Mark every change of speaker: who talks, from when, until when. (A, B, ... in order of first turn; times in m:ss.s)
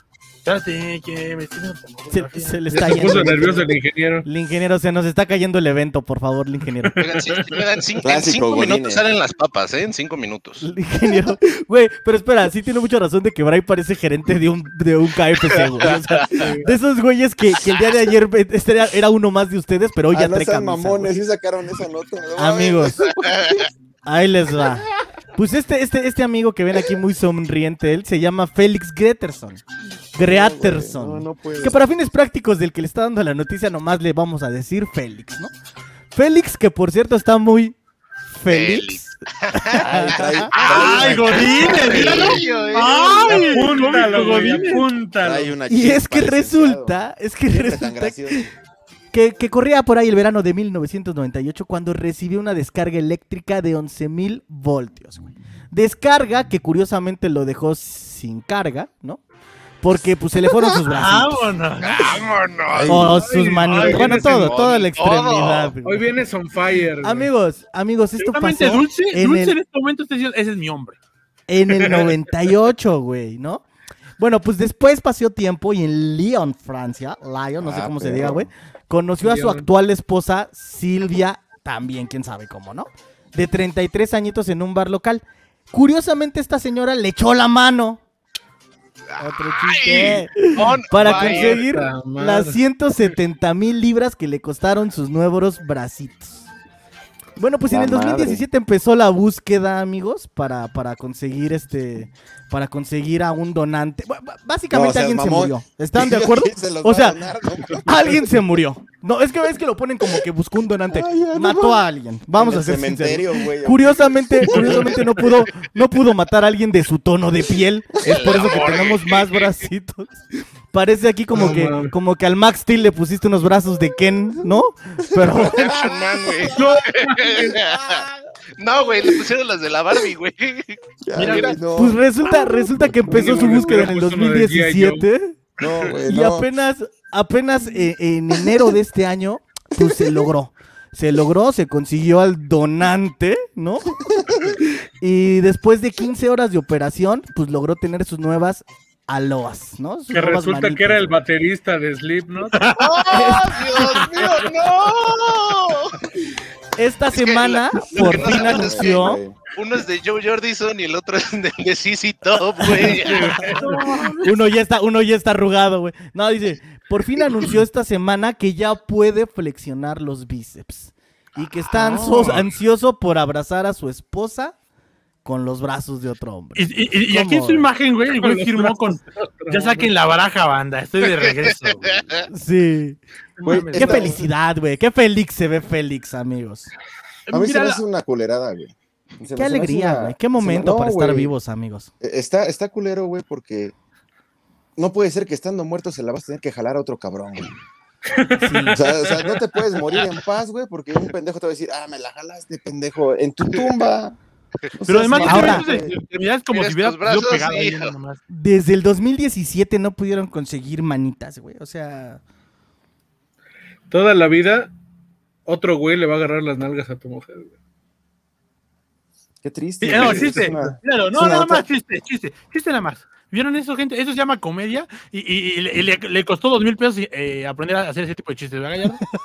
0:00.5-0:03.3 A
0:02.1-0:03.7 B
0:02.7-0:04.3 C
0:04.2-0:06.9 B
0:06.8-0:07.7 C
0:07.0-0:10.7 D
0:08.0-0:09.0 E
0:10.6-0:21.1 B
0:15.5-0:16.4 D
0:16.4-0:16.7 C
0:20.1-0:23.7 E
0:22.4-0:23.0 B
0:23.2-0:23.6 D
0:24.0-0:29.6 B
0:30.2-0:35.5 B
0:30.2-0:31.8 E
0:36.1-0:37.8 B
0:38.3-0:41.5 B
0:38.5-0:44.0 D
0:39.8-0:42.4 E
0:40.5-0:44.9 A
0:43.3-0:45.6 C
0:45.2-0:47.0 E
0:45.7-0:48.4 B
0:47.5-0:48.5 E
0:49.1-0:59.2 B
0:59.8-1:01.6 B
1:00.9-1:02.2 A
1:01.8-1:03.1 D
1:02.7-1:03.3 E
1:02.9-1:06.1 B
1:03.1-1:04.7 C
1:03.7-1:05.7 D
1:05.8-1:07.3 C
1:07.0-1:09.6 B
1:08.2-1:11.0 A
1:11.5-1:13.6 B
1:14.2-1:28.0 B
1:17.6-1:18.5 E
1:19.2-1:19.7 C
1:29.1-1:31.6 D
1:29.2-1:36.4 B
1:30.9-1:32.6 C
1:37.4-1:47.2 B
1:37.7-1:38.4 E
1:44.7-1:48.2 E
1:47.8-2:05.9 B
1:50.9-1:51.8 E
1:52.4-1:55.0 E
1:54.5-1:55.0 C
1:58.0-1:59.6 D
2:01.3-2:01.9 C
2:05.2-2:06.0 E
2:05.4-2:08.0 D
2:06.5-2:07.0 A
2:07.0-2:07.4 C
2:07.5-2:08.1 B
2:08.6-2:11.6 D
2:11.1-2:12.0 E
2:11.2-2:11.6 A
2:11.8-2:15.4 B
2:13.0-2:15.0 C
2:13.1-2:13.7 E
2:15.6-2:16.5 E
2:16.1-2:24.0 B
2:19.8-2:20.2 E
2:24.0-2:24.6 E
2:24.6-2:31.1 B
2:30.1-2:32.7 C
2:32.6-2:33.0 A
2:32.8-2:36.0 D
2:33.1-2:34.1 B
2:36.8-2:39.2 B
2:37.1-2:43.4 D
2:38.0-2:39.4 E
2:42.6-2:54.6 B
2:43.0-2:43.8 C
2:43.4-2:44.4 A
2:51.7-2:52.4 A
2:55.2-2:57.7 B
2:56.6-3:02.1 A
2:58.2-2:59.9 C
3:01.8-3:02.2 D
3:02.3-3:03.0 B
3:03.4-3:04.2 A
3:03.4-3:04.3 E
3:03.7-3:06.7 B
3:07.3-3:07.8 A
3:07.3-3:11.3 E
3:09.4-3:11.9 B
3:12.0-3:13.7 E
3:14.8-3:17.5 E
3:18.1-3:19.3 C
3:18.4-3:18.8 B
3:18.7-3:24.2 E
3:24.7-3:26.0 E
3:24.9-3:28.2 A
3:25.2-3:25.7 B
3:26.5-3:27.9 D
3:28.3-3:32.2 B
3:33.9-3:34.7 C
3:35.5-3:37.5 C
3:39.4-3:41.7 E
3:39.8-3:49.0 A
3:39.9-3:40.6 C